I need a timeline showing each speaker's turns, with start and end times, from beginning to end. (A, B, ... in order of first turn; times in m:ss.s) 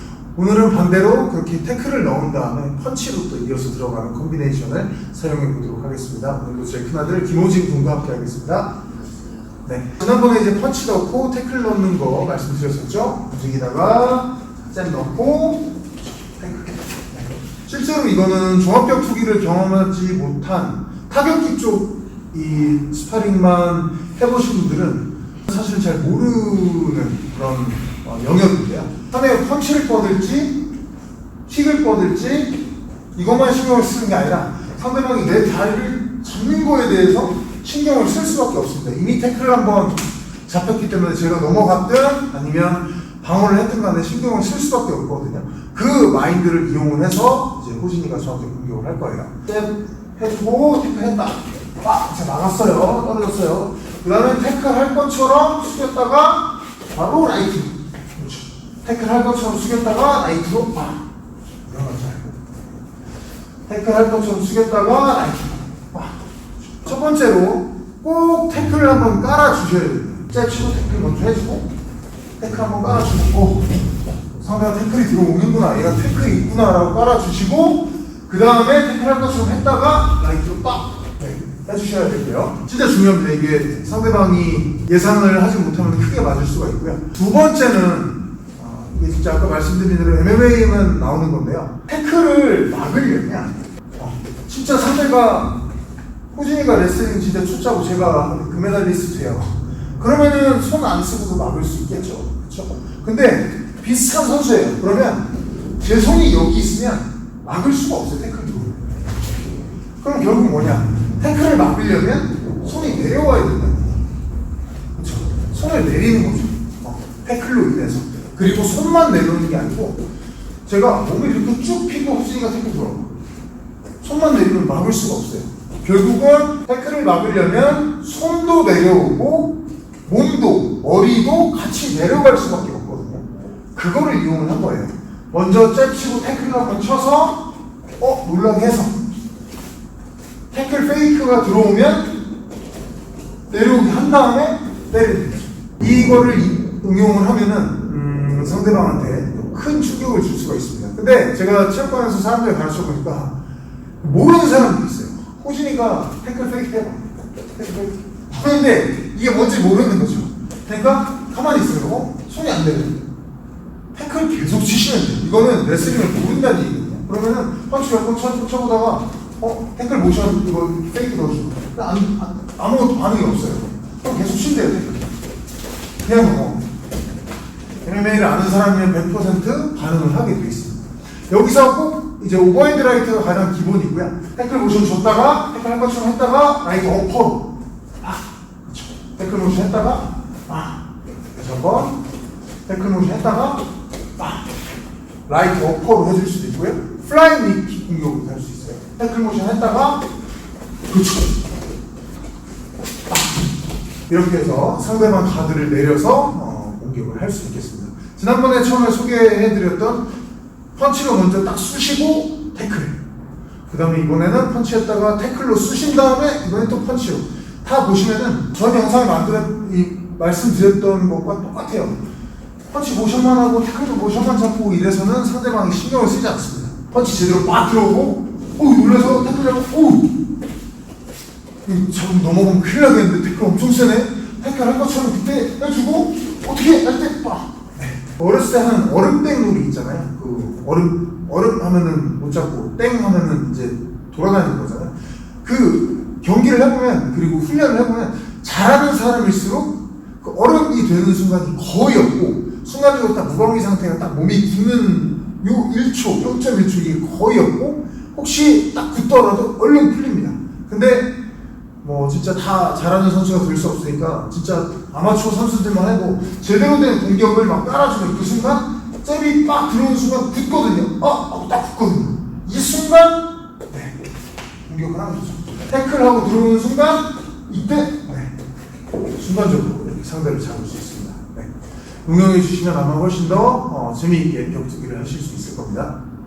0:00.3-0:30.6 A
0:31.5-0:32.6 A
0:33.1-1:01.0 A
1:01.6-1:02.4 A
1:03.7-1:11.7 A
1:12.4-1:13.7 A
1:14.3-1:35.6 A
1:36.3-1:49.0 A
1:50.0-1:54.0 A
1:55.0-2:00.0 A
2:00.6-2:03.1 A
2:04.0-2:17.4 A
2:18.0-2:18.9 A
2:20.5-2:22.1 A
2:23.5-2:33.4 A
2:34.0-2:43.0 A
2:43.9-2:55.1 A
2:56.0-2:56.6 A
2:57.8-3:10.8 A
3:11.3-3:12.0 A
3:12.6-3:13.6 A
3:14.2-3:14.4 A
3:15.3-3:20.0 A
3:20.9-3:21.4 A
3:24.1-3:30.1 A
3:30.7-3:33.0 A
3:33.7-3:42.0 A
3:42.7-3:50.1 A
3:51.6-4:21.1 A
4:21.8-4:34.0 A
4:34.6-4:38.3 A
4:39.1-4:41.5 A
4:42.0-4:46.0 A